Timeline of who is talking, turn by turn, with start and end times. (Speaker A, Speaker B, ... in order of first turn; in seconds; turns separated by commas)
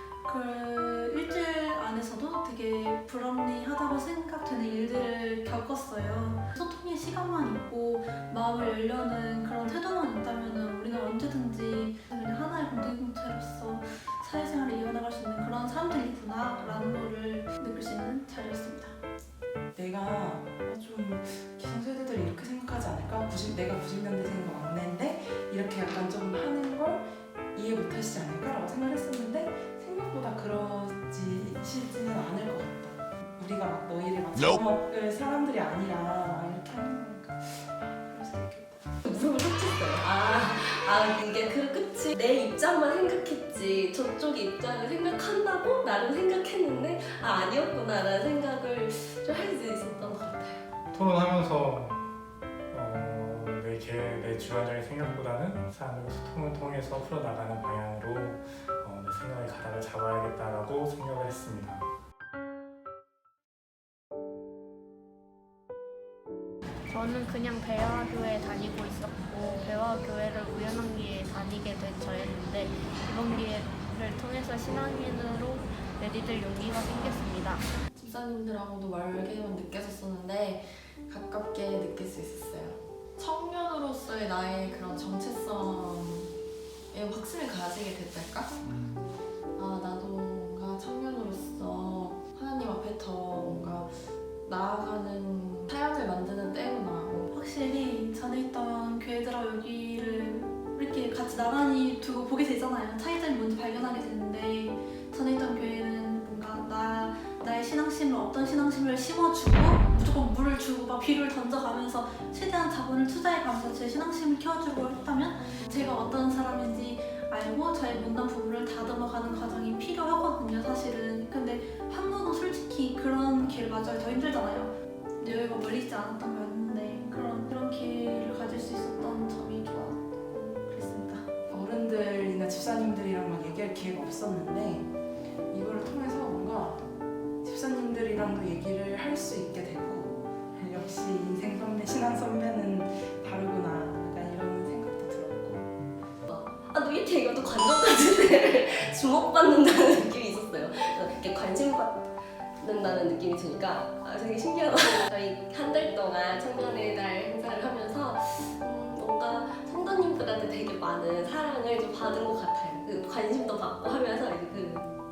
Speaker A: 0.2-19.0, Speaker B: 19.7-38.9, Speaker C: 39.0-50.6, Speaker D: 50.9-52.1, Speaker D: 52.7-61.9, Speaker E: 66.9-77.7, Speaker F: 78.0-86.3, Speaker F: 86.9-88.9, Speaker F: 89.5-97.3, Speaker A: 97.3-131.3, Speaker B: 131.5-134.9, Speaker B: 135.5-136.9, Speaker B: 137.4-145.7, Speaker C: 146.2-152.1, Speaker C: 152.6-164.9